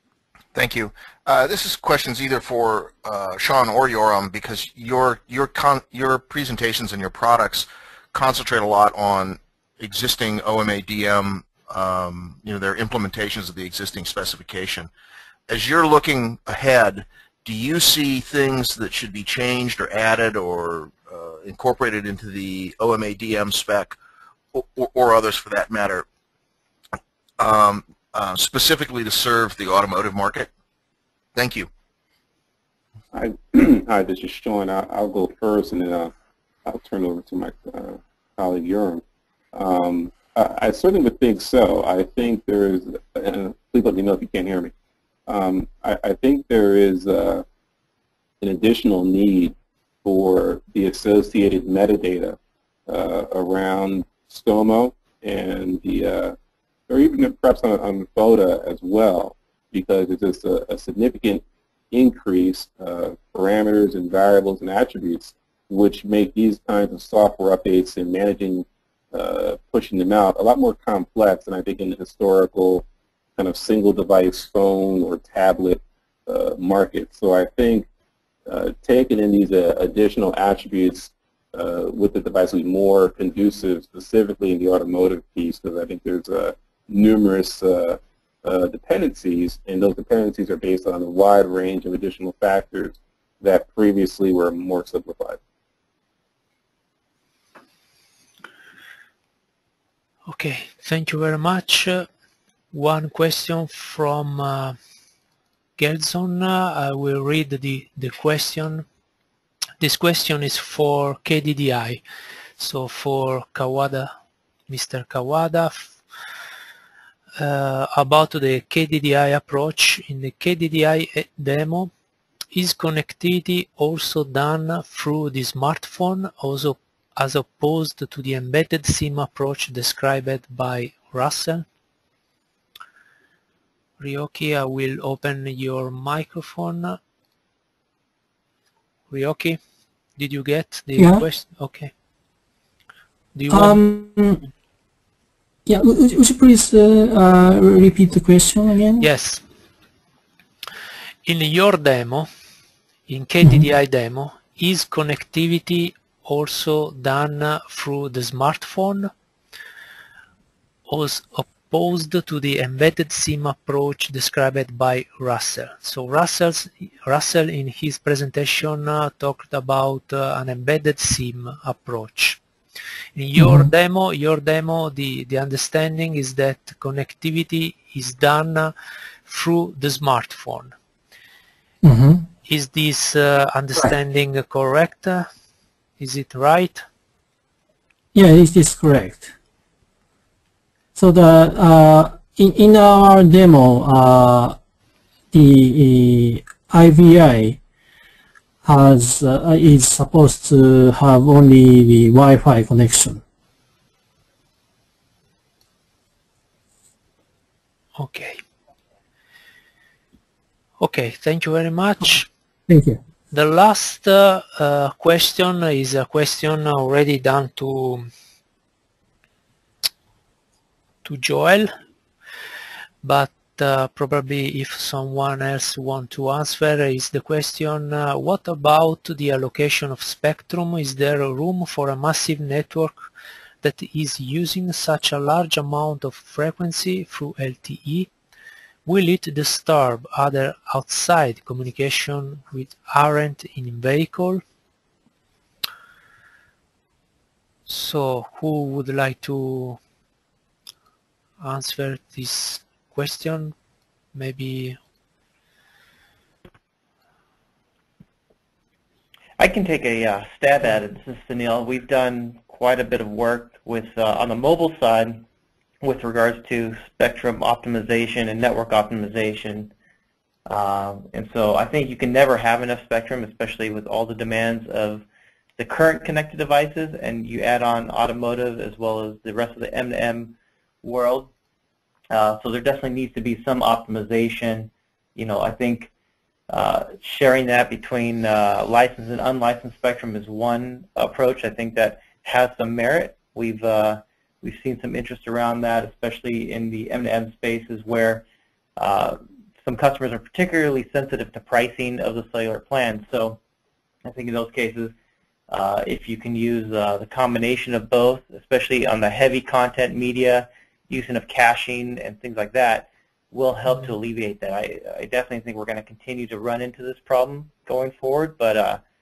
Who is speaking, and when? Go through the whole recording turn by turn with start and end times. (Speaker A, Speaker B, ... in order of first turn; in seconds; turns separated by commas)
Speaker A: 0.5-14.9, Speaker A: 15.5-24.0, Speaker A: 24.5-26.0, Speaker A: 27.4-30.5, Speaker A: 31.4-31.7, Speaker B: 33.1-36.1, Speaker B: 36.6-39.0, Speaker B: 39.5-44.7, Speaker B: 45.3-47.4, Speaker B: 48.4-56.4, Speaker B: 56.9-72.8, Speaker B: 73.4-77.9, Speaker B: 78.5-95.4, Speaker C: 100.3-102.1, Speaker C: 102.7-104.8, Speaker C: 105.8-108.8, Speaker C: 109.8-112.0, Speaker C: 112.6-114.1, Speaker C: 114.7-116.0, Speaker C: 117.4-121.9, Speaker C: 122.5-131.6, Speaker C: 134.0-137.0, Speaker C: 139.1-139.6, Speaker C: 140.2-141.9, Speaker D: 141.0-141.2, Speaker C: 143.3-143.8, Speaker D: 143.5-144.4, Speaker D: 145.7-149.1, Speaker C: 149.0-149.4, Speaker C: 151.2-152.3, Speaker C: 153.1-159.1, Speaker C: 160.9-172.4, Speaker C: 173.2-178.7, Speaker D: 173.4-173.7, Speaker C: 179.2-180.7, Speaker D: 181.8-182.2, Speaker C: 182.4-185.3, Speaker C: 186.0-186.8, Speaker D: 188.1-189.3, Speaker D: 190.9-194.6, Speaker D: 195.3-197.6, Speaker D: 198.6-203.2, Speaker C: 208.0-208.4, Speaker C: 210.8-212.3, Speaker D: 212.7-213.0, Speaker C: 213.3-218.1, Speaker C: 221.0-221.7, Speaker C: 223.0-233.1, Speaker C: 233.6-238.1, Speaker C: 238.8-244.4, Speaker C: 247.7-249.8, Speaker C: 251.4-253.5, Speaker C: 254.1-254.8, Speaker E: 259.4-265.2, Speaker E: 265.8-269.7, Speaker E: 270.5-275.1, Speaker E: 275.6-281.3, Speaker E: 282.1-285.9, Speaker E: 286.5-298.2, Speaker E: 298.8-303.4, Speaker E: 304.0-304.9, Speaker E: 305.5-318.8